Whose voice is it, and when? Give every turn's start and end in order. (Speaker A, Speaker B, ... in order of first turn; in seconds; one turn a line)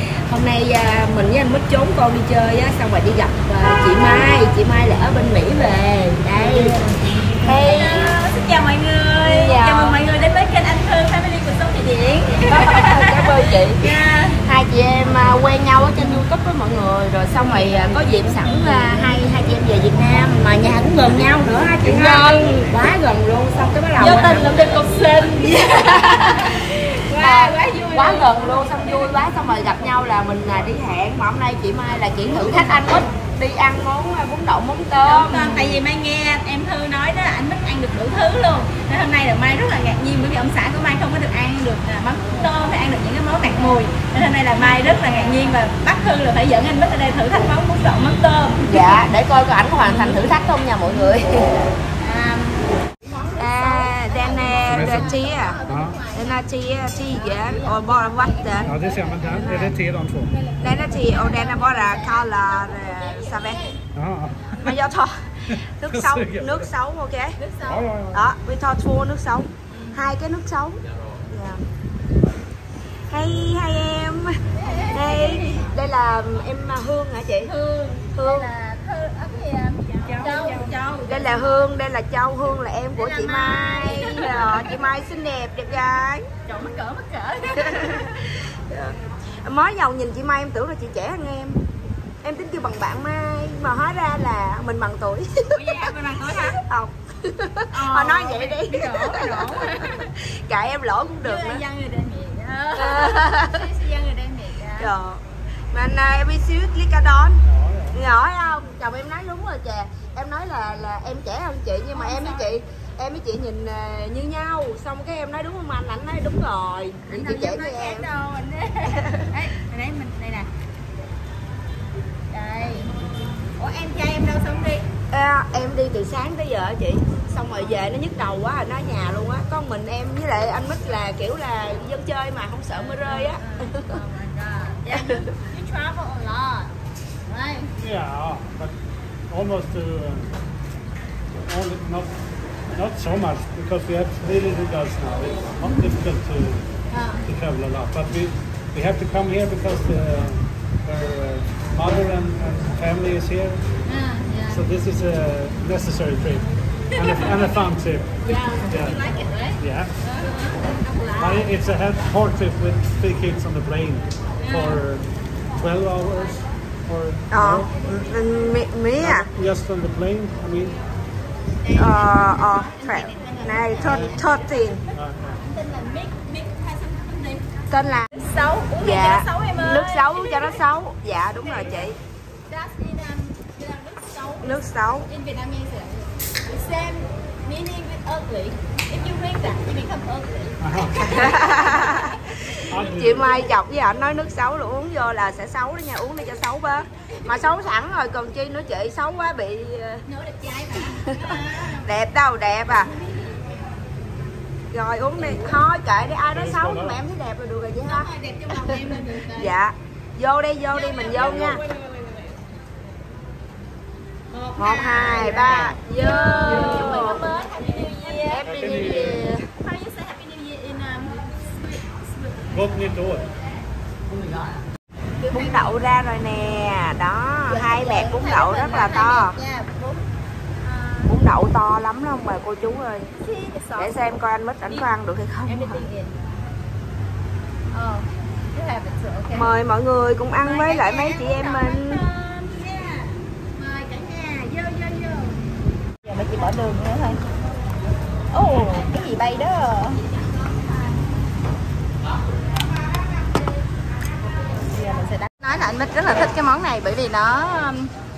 Speaker A: 0.3-8.2
Speaker B: 7.4-13.2
Speaker A: 9.2-10.0
Speaker A: 12.5-13.8
Speaker B: 13.8-14.4
Speaker A: 14.4-24.8
Speaker B: 21.9-22.4
Speaker B: 24.0-28.9
Speaker A: 25.7-35.8
Speaker B: 32.4-32.8
Speaker B: 35.0-49.1
Speaker A: 48.7-51.7
Speaker B: 49.8-50.3
Speaker B: 52.0-56.4
Speaker A: 53.4-55.5
Speaker C: 54.7-55.1
Speaker C: 55.7-56.0
Speaker A: 56.1-58.7
Speaker B: 57.0-59.8
Speaker C: 58.6-60.3
Speaker B: 60.3-63.8
Speaker A: 60.6-63.6
Speaker C: 63.9-64.8
Speaker A: 64.6-67.3
Speaker C: 65.5-66.7
Speaker B: 67.4-67.9
Speaker C: 67.6-68.2
Speaker A: 68.1-71.6
Speaker B: 69.7-70.0
Speaker A: 73.1-74.3
Speaker B: 74.5-75.6
Speaker A: 74.9-77.5
Speaker B: 77.4-81.4
Speaker A: 78.1-78.5
Speaker A: 81.1-86.2
Speaker B: 83.0-84.8
Speaker B: 86.4-88.1
Speaker A: 87.6-91.6
Speaker A: 92.2-95.6
Speaker B: 95.5-96.6
Speaker A: 96.6-101.6
Speaker B: 97.7-100.1
Speaker B: 101.2-104.9
Speaker A: 102.8-103.6
Speaker A: 104.8-118.1
Speaker C: 107.5-108.0
Speaker B: 111.9-112.5
Speaker B: 117.1-120.5
Speaker B: 122.3-122.9
Speaker B: 123.6-124.8
Speaker A: 125.1-134.0
Speaker B: 132.8-136.7
Speaker A: 134.9-135.3
Speaker B: 137.3-137.7
Speaker C: 137.8-138.7
Speaker C: 139.3-140.3
Speaker C: 141.5-142.1
Speaker C: 142.7-146.7
Speaker B: 146.9-147.2
Speaker C: 147.2-153.7
Speaker B: 153.9-154.6
Speaker C: 154.5-159.1
Speaker B: 156.9-157.3
Speaker B: 158.2-161.5
Speaker C: 159.6-159.9
Speaker C: 161.2-165.1
Speaker B: 164.4-164.8
Speaker C: 165.6-167.7
Speaker A: 167.3-169.3
Speaker C: 169.0-170.8
Speaker B: 171.7-174.2
Speaker A: 171.7-174.8
Speaker C: 173.8-174.1
Speaker C: 174.9-175.4
Speaker B: 175.4-177.4
Speaker A: 177.7-178.1
Speaker B: 178.1-180.6
Speaker A: 178.8-182.0
Speaker B: 182.5-192.2
Speaker A: 184.4-185.1
Speaker C: 190.6-191.3
Speaker A: 191.1-192.2
Speaker C: 192.7-193.4
Speaker A: 192.8-200.0
Speaker B: 200.1-201.8
Speaker A: 200.8-202.9
Speaker A: 204.7-211.6
Speaker C: 206.3-207.0
Speaker B: 207.8-209.5
Speaker B: 210.7-212.4
Speaker B: 214.3-222.7
Speaker A: 214.6-217.2
Speaker A: 218.1-219.4
Speaker C: 218.4-219.2
Speaker C: 222.5-223.3
Speaker B: 224.1-224.6
Speaker B: 225.2-225.7
Speaker A: 225.3-229.3
Speaker B: 227.5-230.1
Speaker B: 230.6-231.1
Speaker A: 231.1-233.1
Speaker B: 233.2-233.9
Speaker A: 233.8-235.8
Speaker B: 235.4-236.1
Speaker B: 237.7-239.5
Speaker A: 239.3-242.0
Speaker B: 240.4-245.4
Speaker B: 246.0-247.2
Speaker B: 248.3-250.1
Speaker B: 254.7-257.9